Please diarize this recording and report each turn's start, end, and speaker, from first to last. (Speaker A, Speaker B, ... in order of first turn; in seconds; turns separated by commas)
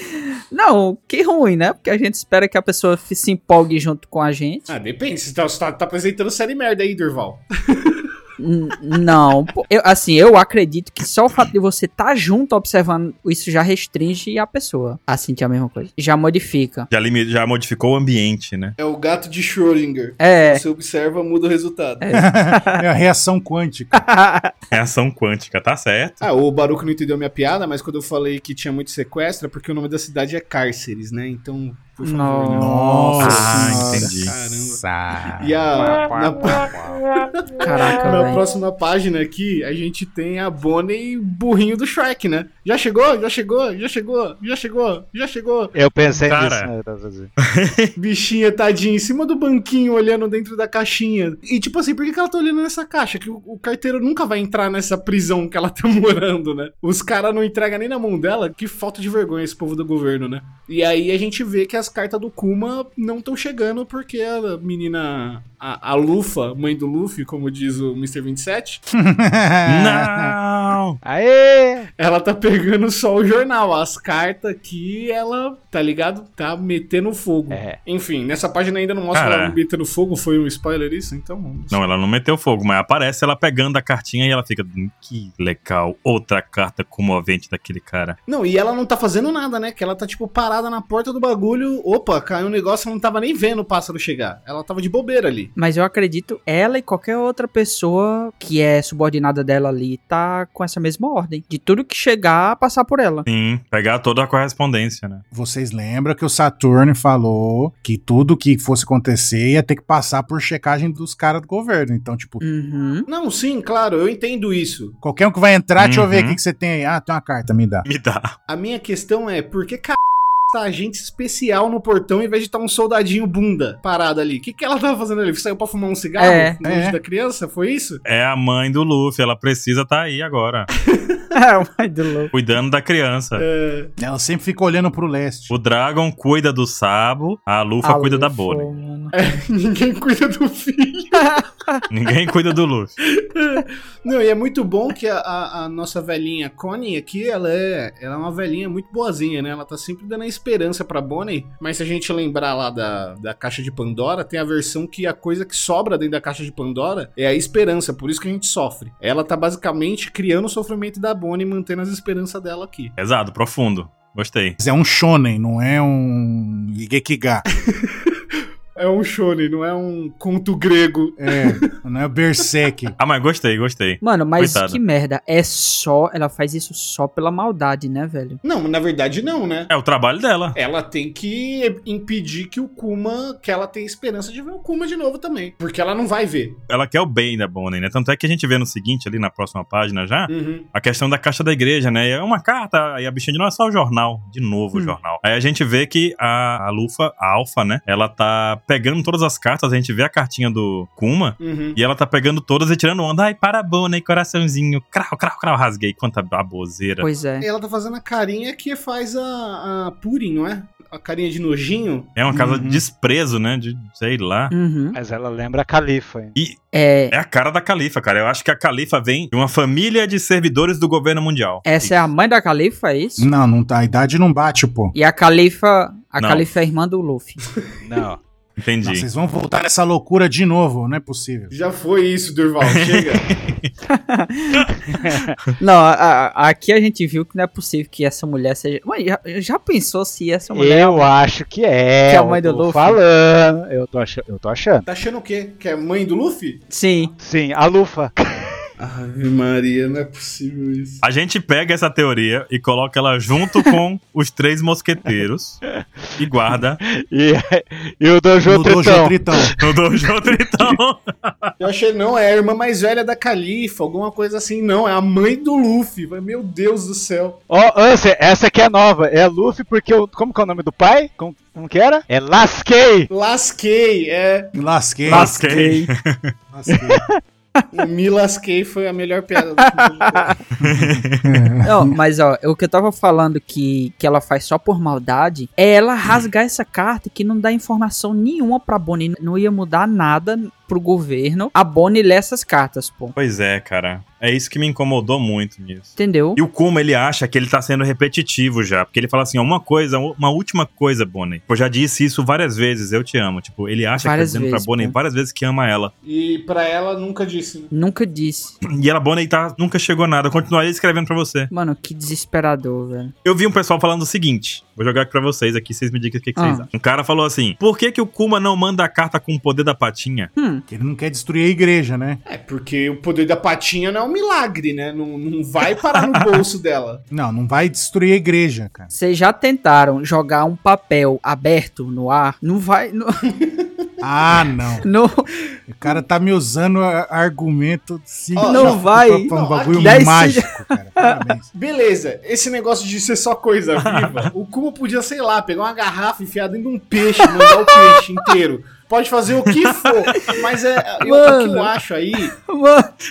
Speaker A: 0.2-4.7, Speaker B: 4.7-8.0, Speaker A: 8.4-16.9, Speaker C: 16.9-18.7, Speaker B: 18.8-22.1, Speaker A: 20.2-20.6, Speaker A: 22.0-22.8, Speaker D: 22.1-24.1, Speaker A: 23.9-24.5, Speaker C: 24.7-26.2, Speaker B: 26.2-33.5, Speaker A: 32.0-34.1, Speaker D: 32.5-35.6, Speaker C: 33.2-34.3, Speaker B: 34.3-34.8, Speaker B: 35.4-45.7, Speaker E: 35.8-37.0, Speaker A: 37.6-38.4, Speaker E: 45.7-47.3, Speaker C: 46.2-46.7, Speaker C: 47.4-47.9, Speaker B: 48.0-68.8, Speaker D: 68.9-70.3, Speaker C: 69.7-71.0, Speaker E: 71.0-71.9, Speaker B: 72.0-81.8, Speaker E: 77.5-77.8, Speaker C: 79.1-79.6, Speaker C: 81.7-88.2, Speaker B: 88.3-95.5, Speaker A: 95.5-103.2, Speaker C: 103.2-105.2, Speaker D: 105.3-112.4, Speaker A: 112.4-113.1, Speaker B: 113.1-115.0, Speaker D: 115.0-117.8, Speaker C: 115.8-116.4, Speaker C: 117.8-118.3, Speaker B: 118.5-128.0, Speaker A: 126.2-126.6, Speaker D: 126.6-127.0, Speaker C: 128.0-130.7, Speaker B: 130.9-131.2, Speaker A: 131.3-132.3, Speaker C: 132.3-133.4, Speaker B: 133.4-133.9, Speaker D: 134.0-135.5, Speaker C: 135.5-138.7, Speaker A: 137.8-139.1, Speaker B: 139.1-141.2, Speaker A: 141.2-141.8, Speaker C: 141.9-142.9, Speaker B: 143.2-162.9, Speaker C: 163.0-164.6, Speaker D: 164.6-167.4, Speaker B: 167.7-168.2, Speaker B: 168.8-171.6, Speaker D: 171.2-172.9, Speaker C: 173.0-174.8, Speaker A: 174.0-178.4, Speaker B: 178.4-179.7, Speaker C: 179.7-180.6, Speaker B: 180.5-186.6, Speaker C: 186.7-207.1, Speaker B: 190.3-190.7, Speaker B: 201.4-201.8, Speaker A: 207.0-207.5, Speaker B: 207.4-212.1, Speaker C: 212.2-214.5, Speaker D: 212.3-212.8, Speaker A: 214.5-215.0, Speaker E: 214.9-216.3, Speaker A: 216.7-217.1, Speaker C: 217.1-222.1, Speaker A: 221.6-223.3, Speaker D: 223.2-224.9, Speaker A: 224.9-227.4, Speaker C: 226.2-226.4, Speaker E: 227.8-228.2, Speaker C: 228.6-229.0, Speaker D: 228.8-231.5, Speaker B: 231.5-233.3, Speaker C: 232.6-233.7, Speaker A: 233.9-234.7, Speaker E: 234.9-235.3, Speaker A: 235.6-241.1, Speaker E: 240.5-244.8, Speaker A: 242.1-243.0, Speaker B: 244.8-246.6, Speaker A: 246.7-247.1, Speaker E: 247.2-248.6, Speaker B: 248.8-251.0, Speaker C: 251.0-255.6, Speaker E: 255.7-256.2, Speaker C: 256.2-256.8, Speaker E: 256.8-259.7, Speaker D: 258.4-259.5, Speaker C: 259.6-261.5, Speaker B: 261.6-267.4, Speaker E: 267.5-273.1, Speaker B: 273.1-274.5, Speaker D: 274.5-275.6, Speaker C: 275.1-276.3, Speaker A: 275.1-275.9, Speaker D: 276.5-277.0, Speaker E: 276.7-277.1, Speaker B: 277.7-280.4, Speaker A: 279.6-280.4, Speaker C: 280.6-281.4, Speaker D: 280.6-281.9, Speaker A: 281.6-293.1, Speaker C: 293.1-305.9, Speaker A: 296.0-296.4, Speaker A: 304.0-304.9, Speaker B: 306.0-307.7, Speaker A: 307.7-308.5, Speaker C: 308.6-311.5, Speaker A: 311.5-313.1, Speaker C: 313.2-320.3, Speaker A: 316.4-316.7, Speaker A: 320.4-320.6, Speaker D: 320.7-322.2, Speaker B: 322.2-327.0, Speaker C: 325.9-326.3, Speaker D: 327.1-328.9, Speaker A: 328.9-333.1, Speaker B: 333.3-333.8, Speaker D: 334.0-334.9, Speaker A: 334.8-335.3, Speaker D: 335.7-341.5, Speaker B: 338.4-340.2, Speaker A: 338.4-341.1, Speaker B: 341.5-352.3, Speaker C: 343.8-344.3, Speaker A: 347.2-348.3, Speaker C: 349.5-350.3, Speaker A: 351.0-351.7, Speaker A: 352.5-352.9